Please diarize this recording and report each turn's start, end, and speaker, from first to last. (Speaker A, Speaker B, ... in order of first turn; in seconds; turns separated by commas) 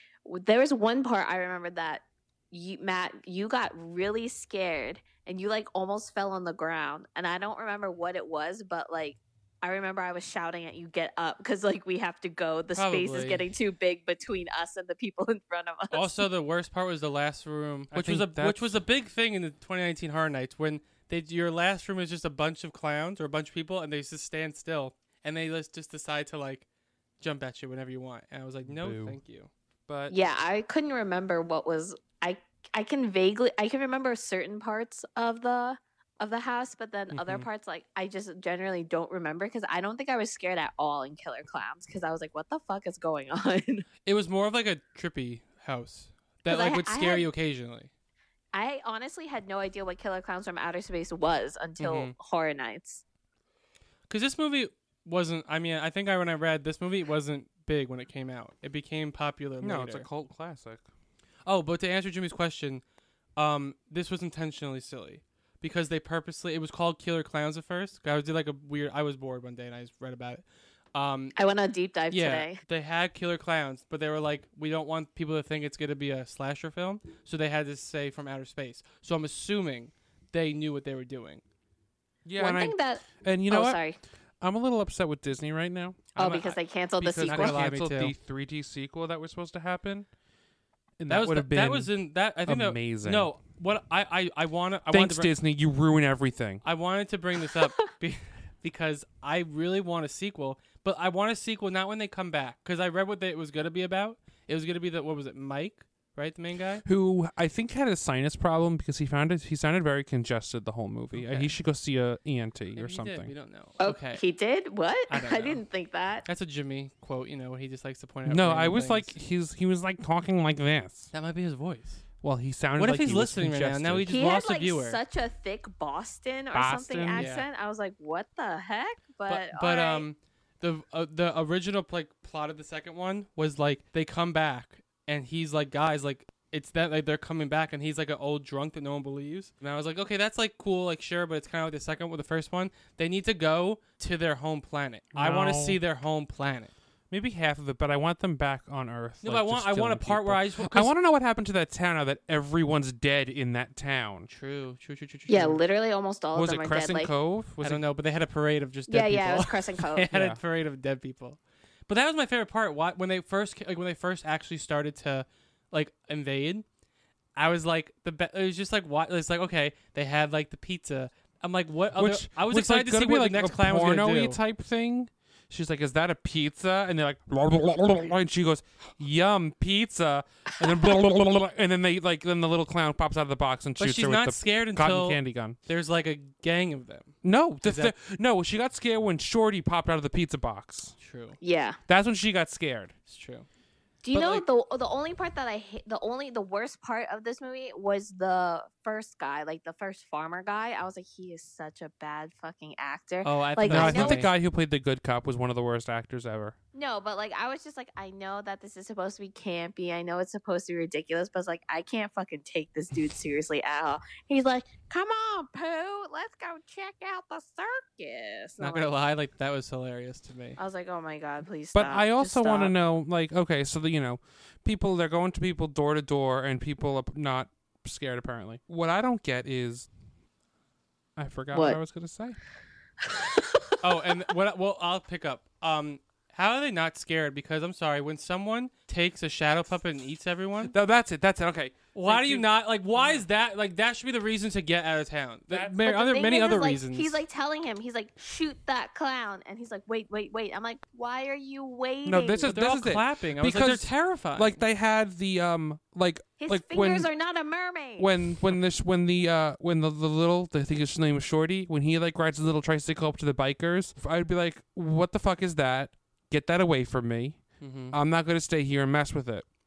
Speaker A: 0.2-16.3, Speaker B: 12.7-13.5, Speaker B: 15.9-26.6, Speaker C: 17.9-18.7, Speaker B: 27.2-29.5, Speaker C: 28.7-29.2, Speaker C: 29.9-30.1, Speaker A: 30.1-43.9, Speaker B: 44.0-47.9, Speaker A: 46.5-47.3, Speaker A: 48.5-53.0, Speaker B: 51.8-52.1, Speaker B: 54.1-60.1, Speaker C: 59.6-60.8, Speaker B: 61.5-62.8, Speaker B: 63.4-71.3, Speaker A: 71.3-72.6, Speaker B: 72.1-81.4, Speaker C: 82.2-83.8, Speaker A: 82.4-84.0, Speaker C: 84.4-90.1, Speaker A: 86.2-87.6, Speaker B: 87.2-88.1, Speaker C: 91.0-91.9, Speaker B: 91.1-95.3, Speaker C: 92.5-93.3, Speaker C: 94.9-96.6, Speaker B: 96.6-106.8, Speaker C: 106.8-113.3, Speaker B: 111.1-111.5, Speaker B: 112.8-114.2, Speaker A: 113.8-116.2, Speaker B: 115.1-115.6, Speaker B: 116.2-119.2, Speaker C: 118.2-121.1, Speaker B: 121.1-122.0, Speaker C: 122.2-124.1, Speaker B: 122.8-125.0, Speaker A: 124.1-130.1, Speaker C: 126.5-127.3, Speaker B: 127.2-127.5, Speaker B: 129.3-146.7, Speaker C: 145.1-145.8, Speaker C: 147.1-154.3, Speaker B: 149.2-150.9, Speaker B: 154.3-155.6, Speaker A: 155.3-157.1, Speaker C: 156.3-157.8, Speaker B: 157.6-166.6, Speaker A: 158.9-160.1, Speaker C: 160.1-160.4, Speaker B: 167.3-174.4, Speaker C: 171.9-185.6, Speaker B: 183.8-187.9, Speaker C: 187.2-190.9, Speaker B: 191.0-191.4, Speaker A: 191.4-191.8, Speaker C: 191.9-192.9, Speaker B: 193.1-193.4, Speaker A: 194.0-204.3, Speaker B: 194.1-194.4, Speaker B: 203.2-204.3, Speaker C: 203.6-206.6, Speaker A: 206.7-218.9, Speaker B: 218.6-220.6, Speaker A: 220.6-222.8, Speaker C: 221.7-229.9, Speaker C: 231.2-232.4, Speaker A: 231.5-231.8, Speaker A: 233.1-233.8, Speaker B: 233.8-240.7, Speaker C: 240.7-243.2, Speaker B: 241.9-247.2, Speaker A: 245.8-252.5, Speaker C: 252.0-257.1, Speaker B: 252.5-254.6, Speaker A: 256.4-258.1, Speaker C: 258.0-269.5, Speaker B: 267.6-268.0